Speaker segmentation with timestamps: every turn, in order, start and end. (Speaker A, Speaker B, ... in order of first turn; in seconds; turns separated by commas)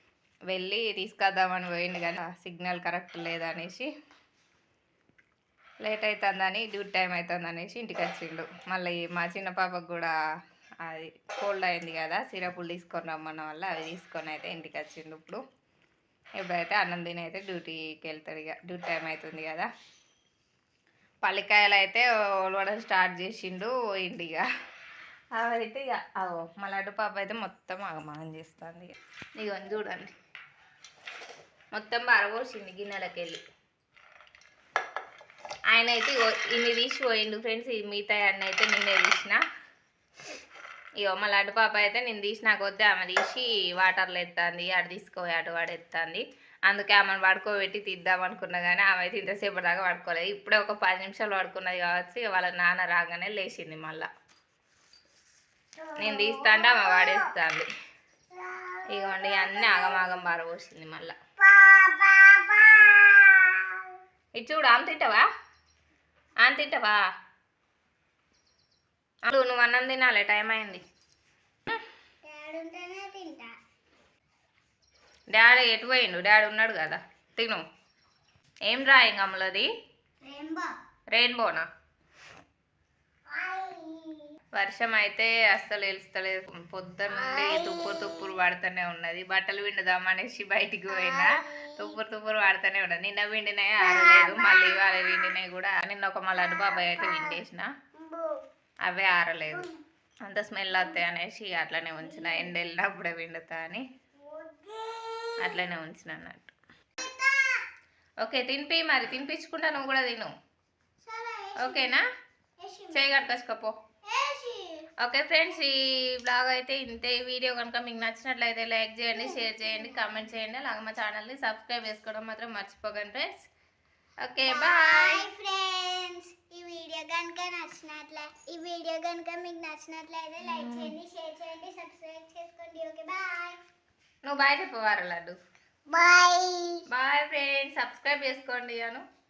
Speaker A: 0.5-3.9, Speaker A: 5.8-10.1, Speaker A: 10.8-15.4, Speaker A: 16.4-19.7, Speaker A: 21.2-24.4, Speaker A: 25.3-30.1, Speaker A: 31.7-33.4, Speaker A: 35.7-39.4, Speaker A: 41.0-54.1, Speaker A: 56.0-57.7, Speaker B: 56.3-56.7, Speaker B: 58.5-58.8, Speaker A: 58.9-61.1, Speaker B: 61.4-63.8, Speaker A: 64.3-65.2, Speaker A: 66.4-67.0, Speaker A: 69.2-70.8, Speaker B: 72.2-73.5, Speaker A: 75.3-77.6, Speaker A: 78.7-79.7, Speaker B: 80.2-80.7, Speaker A: 81.1-81.7, Speaker B: 83.3-84.3, Speaker A: 84.5-97.7, Speaker B: 94.2-94.5, Speaker B: 98.0-98.4, Speaker A: 98.8-99.7, Speaker A: 100.2-103.8, Speaker B: 104.3-105.3, Speaker A: 105.4-106.5, Speaker B: 107.1-107.6, Speaker A: 108.2-110.3, Speaker B: 111.1-111.9, Speaker A: 111.6-112.0, Speaker B: 112.6-113.0, Speaker A: 112.9-113.8, Speaker B: 114.1-114.8, Speaker A: 115.0-123.5, Speaker A: 124.2-125.3, Speaker B: 124.5-133.6, Speaker A: 130.4-130.9, Speaker A: 134.2-135.3, Speaker B: 135.9-136.8, Speaker A: 136.9-139.0